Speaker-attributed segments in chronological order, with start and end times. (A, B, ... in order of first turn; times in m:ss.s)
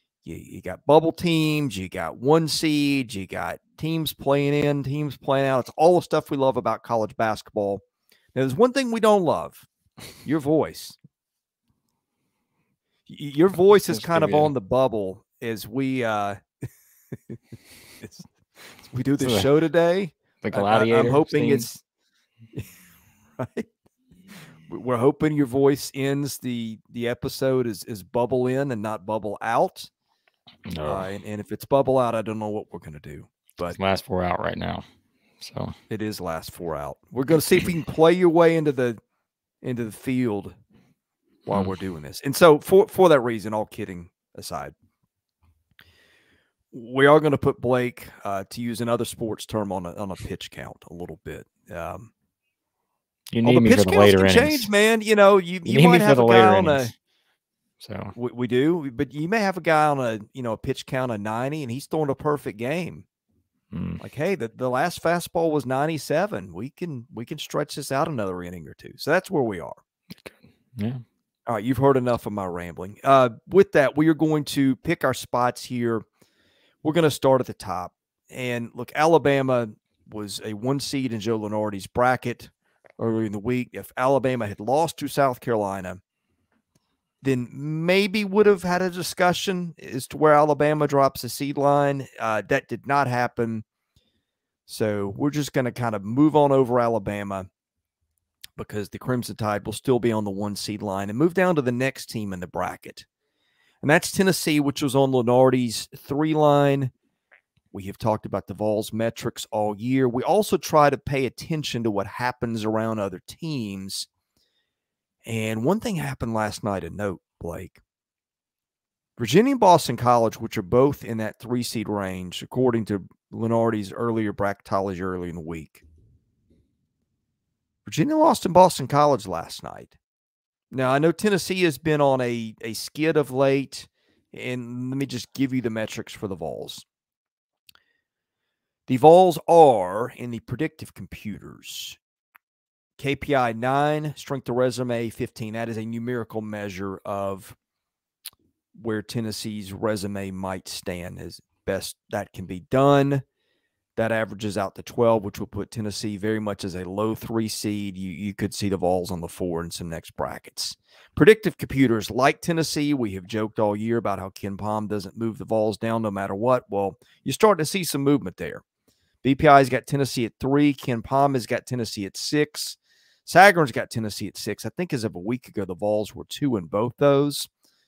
0:00.2-0:07.8 A
0:08.4-0:09.7 A
0:10.2-0:11.0 A
0:13.1-0:16.4 A
0:13.7-0:14.5 B
0:17.3-0:18.3 A
0:18.8-0:21.8 A
0:19.2-0:19.5 B
0:20.4-0:21.7 B
0:23.4-0:23.7 A
0:24.5-0:29.9 A
0:30.7-0:31.1 B
0:30.8-0:33.8 A
0:33.7-0:34.8 B
0:35.4-0:35.8 B
0:35.9-0:39.0 A
0:39.6-0:40.6 A
0:41.4-0:44.8 A
0:46.7-0:52.1 A
0:53.3-0:54.7 B
0:53.4-0:56.9 A
0:55.7-0:56.9 B
0:57.8-0:58.2 B
0:58.2-1:03.0 A
1:03.7-1:04.0 B
1:04.0-1:09.8 A
1:10.1-1:11.0 B
1:11.5-1:16.0 A
1:16.8-1:26.0 A
1:27.2-1:33.6 A
1:34.7-1:37.5 A
1:38.6-1:43.1 A
1:43.8-1:46.9 A
1:47.7-1:54.1 A
1:55.2-1:57.8 A
1:59.2-2:05.8 A
2:07.9-2:10.0 A
2:10.7-2:16.8 A
2:18.9-2:22.0 A
2:23.0-2:27.6 A
2:28.8-2:33.2 A
2:34.0-2:48.6 A
2:49.2-2:57.5 A